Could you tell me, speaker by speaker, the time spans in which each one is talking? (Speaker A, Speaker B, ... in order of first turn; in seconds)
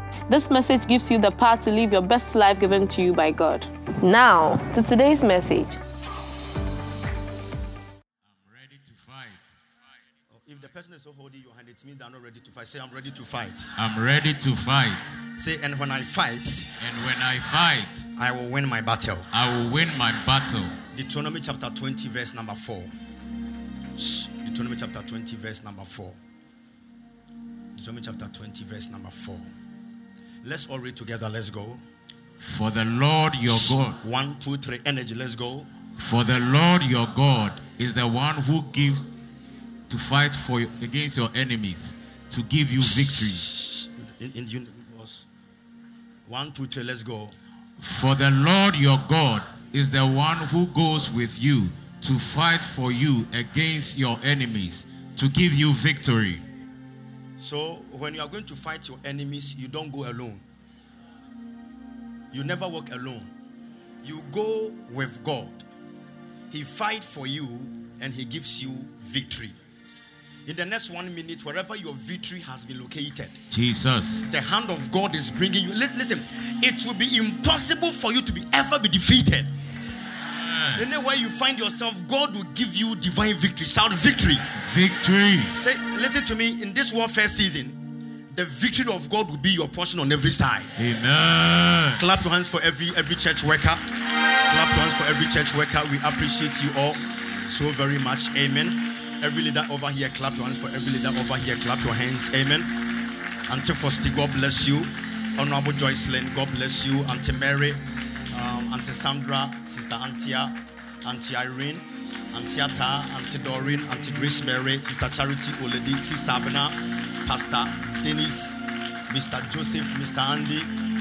Speaker A: 0.3-5.8
Speaker B: 8.2-9.6, 13.8-15.2, 16.8-18.1, 19.3-20.8, 32.4-34.0, 36.0-39.1, 39.9-43.5, 47.8-56.4, 73.5-74.3, 80.3-80.8, 84.6-85.5, 90.8-92.0
Speaker C: 10.3-13.7, 15.4-16.7, 18.2-19.3, 20.9-22.9, 23.9-26.2, 27.7-29.5, 30.4-31.8, 33.5-35.7, 42.8-45.2, 46.3-47.4, 57.4-60.4, 62.3-63.3, 64.0-65.7, 66.5-69.5, 70.5-73.4, 74.3-79.5, 80.7-84.4, 85.5-90.7, 92.0-93.8, 94.4-102.7, 103.5-120.7